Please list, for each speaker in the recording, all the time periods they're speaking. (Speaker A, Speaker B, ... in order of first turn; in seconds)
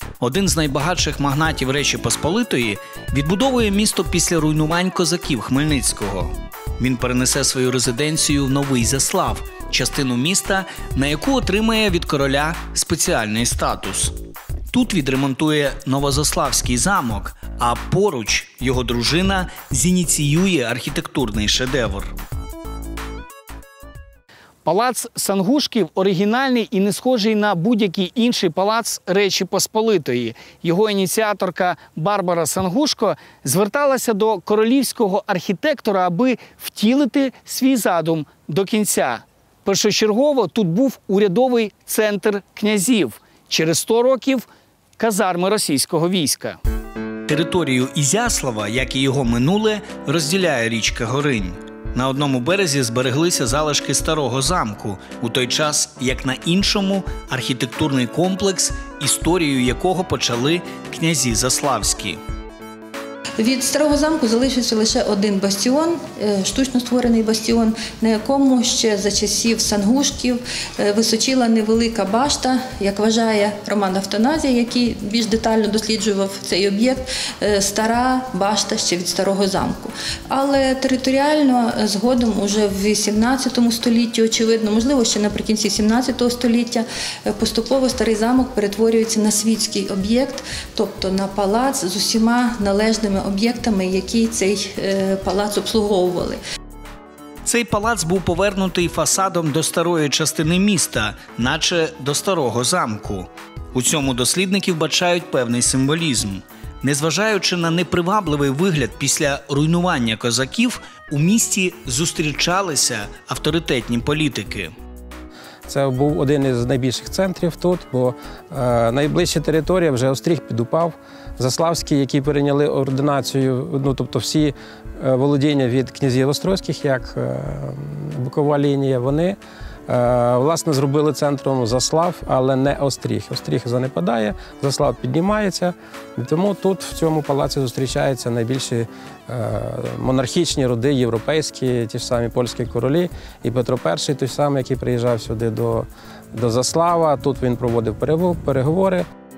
Speaker A: 0.2-14.2, 14.7-22.1, 47.3-62.2, 97.5-114.7
Speaker B: 24.6-44.5, 45.0-46.6
Speaker C: 63.4-96.4
Speaker D: 115.7-149.1